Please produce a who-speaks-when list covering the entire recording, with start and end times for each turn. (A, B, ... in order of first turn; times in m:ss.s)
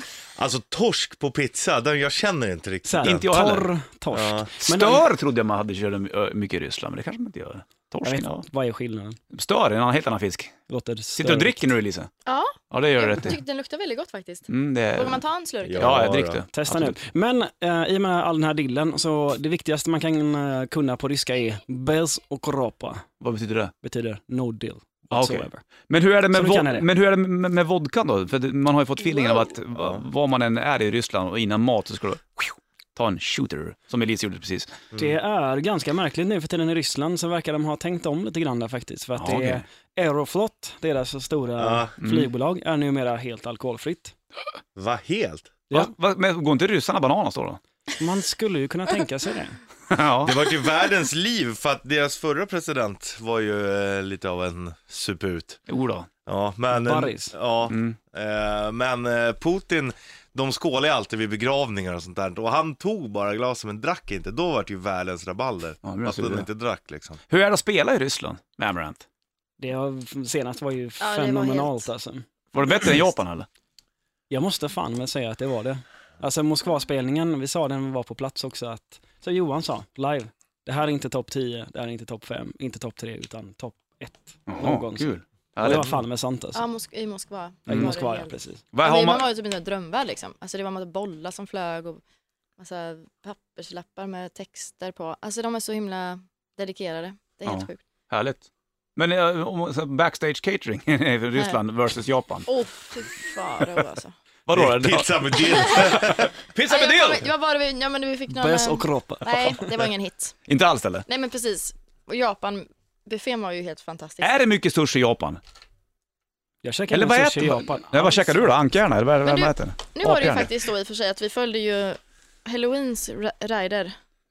0:00.4-0:03.2 A
0:02.9-0:05.1 B
0:03.0-0:03.7 C
0:04.1-0:04.5 A
0:04.6-0:08.5 C
0:08.0-0:09.2 B
0:09.3-0:10.6 C
0:10.7-0:11.7 B
0:11.2-0:12.1 C
0:12.2-0:16.0 D
0:12.7-0:13.4 C
0:14.5-0:15.2 C
0:15.6-0:16.4 A
0:15.7-0:17.0 C
0:16.5-0:23.1 B
0:23.2-0:23.7 C
0:23.8-0:25.6 B
0:25.1-0:34.8 C
0:26.3-0:26.9 B
0:29.8-0:30.0 A
0:34.9-0:35.2 A
0:35.0-0:44.2 B
0:39.2-0:39.6 C
0:41.6-0:41.9 A
0:42.0-0:42.3 C
0:44.8-0:45.5 A
0:45.7-0:47.6 C
0:48.0-0:49.6 B
0:49.9-0:50.4 C
0:50.2-0:55.6 A
0:55.7-0:56.1 C
0:56.3-1:07.2 A
0:56.7-0:57.4 B
0:57.7-0:58.0 C
1:05.8-1:06.5 C
1:07.3-1:09.0 C
1:09.6-1:12.3 B
1:11.0-1:11.9 D
1:12.5-1:13.5 C
1:14.3-1:26.6 B
1:24.5-1:26.0 C
1:26.5-1:32.0 D
1:27.7-1:27.9 C
1:27.7-1:28.6 B
1:28.7-1:29.3 C
1:32.6-1:37.8 D
1:37.4-1:42.5 C
1:42.5-1:44.1 D
1:44.5-1:47.3 C
1:44.5-1:46.3 A
1:45.5-1:46.1 D
1:46.7-1:50.4 D
1:48.3-1:49.8 B
1:50.5-1:51.1 C
1:51.1-1:54.3 D
1:54.2-1:55.4 C
1:56.6-1:58.4 B
1:56.9-2:00.5 C
1:59.2-2:04.0 D